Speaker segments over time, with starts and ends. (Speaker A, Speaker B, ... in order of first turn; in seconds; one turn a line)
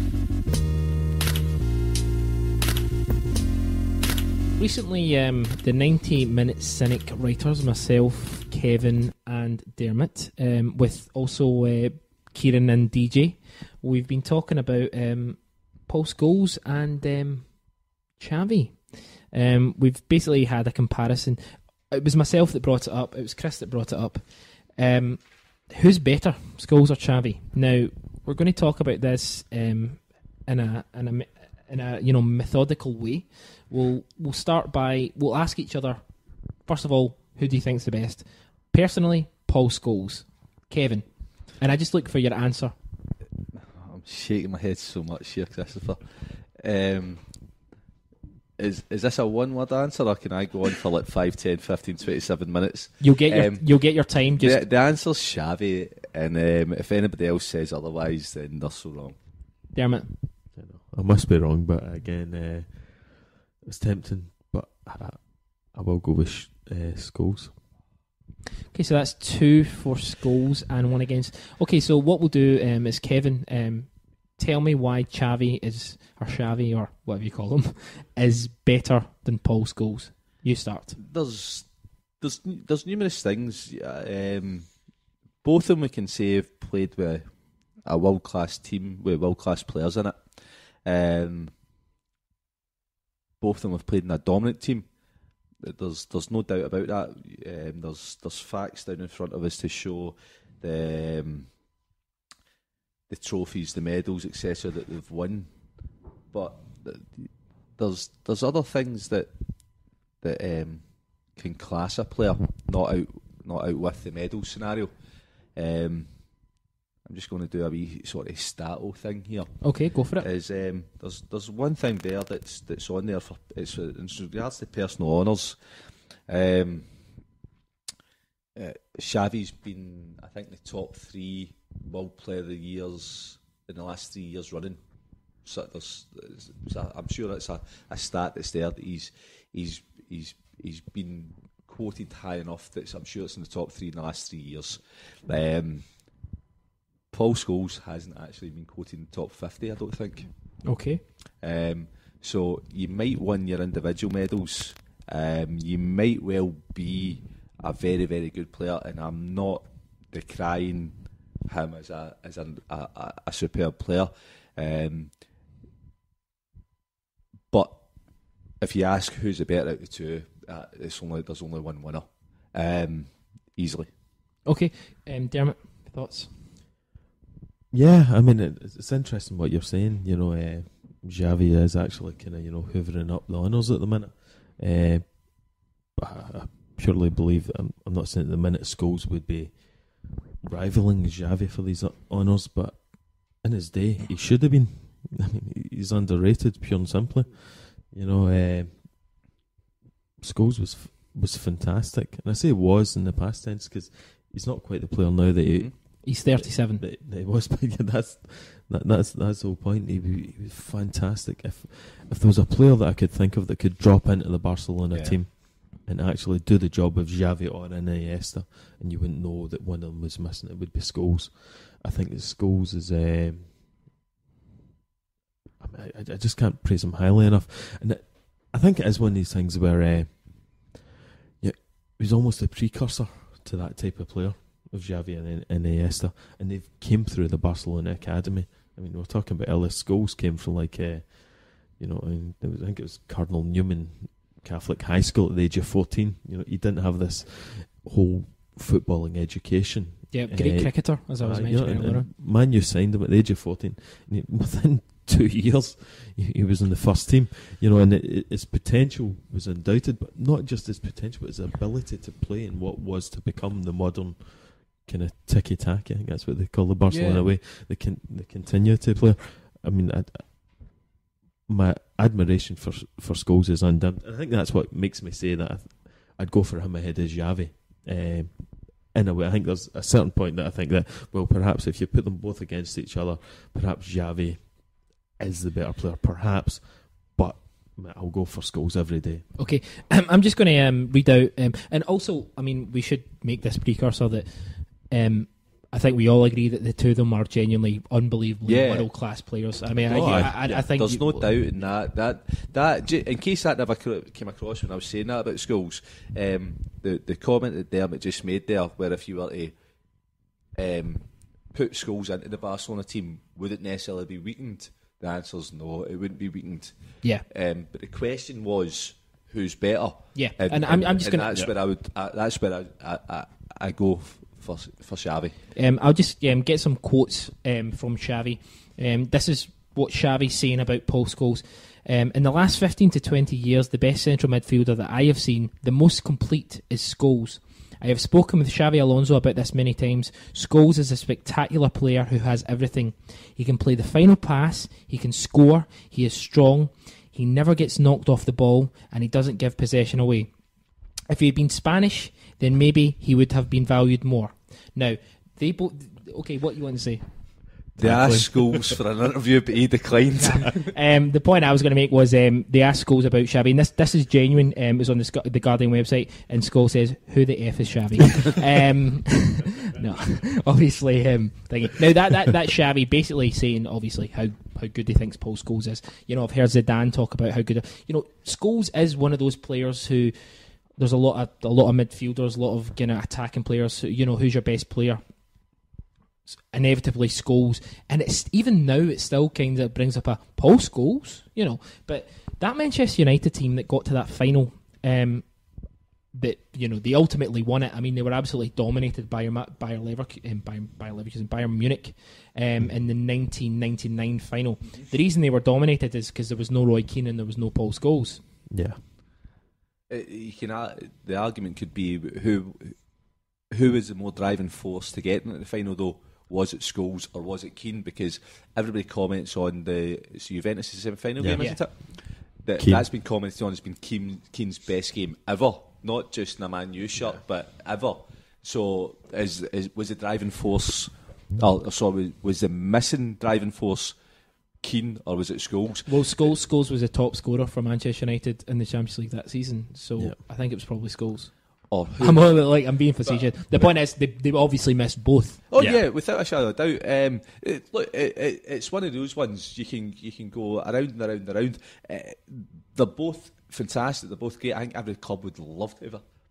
Speaker A: 4.6-42.7
Speaker B: 43.5-47.3
Speaker B: 48.6-59.2
Speaker A: 53.0-54.6
Speaker A: 59.7-60.1
Speaker C: 60.5-67.6
Speaker A: 68.7-81.0
Speaker B: 80.9-84.8
Speaker B: 85.4-91.5
Speaker B: 93.4-94.9
Speaker B: 95.6-101.5
Speaker B: 103.1-105.5
Speaker B: 106.3-109.3
Speaker B: 110.2-114.9
Speaker B: 115.5-116.2
Speaker B: 117.0-126.9
Speaker A: 119.6-120.3
Speaker B: 128.6-134.8
Speaker B: 135.4-145.9
Speaker B: 147.1-150.6
Speaker A: 150.6-151.0
Speaker B: 151.4-160.9
Speaker B: 161.5-165.2
Speaker B: 167.5-167.8
Speaker B: 168.6-173.9
Speaker A: 174.4-176.3
Speaker C: 177.7-199.1
Speaker C: 200.2-223.6
Speaker A: 206.0-206.8
Speaker B: 214.9-215.2
Speaker C: 225.6-230.8
Speaker C: 231.4-270.9
Speaker A: 250.1-252.1
Speaker B: 266.9-267.3
Speaker C: 271.4-289.3
Speaker A: 289.3-301.4
Speaker B: 298.4-309.6
Speaker C: 299.9-300.3
Speaker B: 310.6-325.3
Speaker A: 320.1-321.4
Speaker A: 325.5-350.3
Speaker A: 351.1-357.0
Speaker C: 357.8-358.8
Speaker B: 357.8-360.7
Speaker A: 360.2-385.0
Speaker A: 386.5-395.4
Speaker A: 396.1-408.2
Speaker C: 408.5-408.8
Speaker B: 409.9-412.8
Speaker B: 413.5-434.0
Speaker C: 421.2-421.9
Speaker A: 421.4-421.6
Speaker C: 422.6-422.9
Speaker B: 434.6-436.3
Speaker A: 435.9-445.4
Speaker B: 441.7-443.7
Speaker B: 445.5-456.0
Speaker C: 445.6-445.8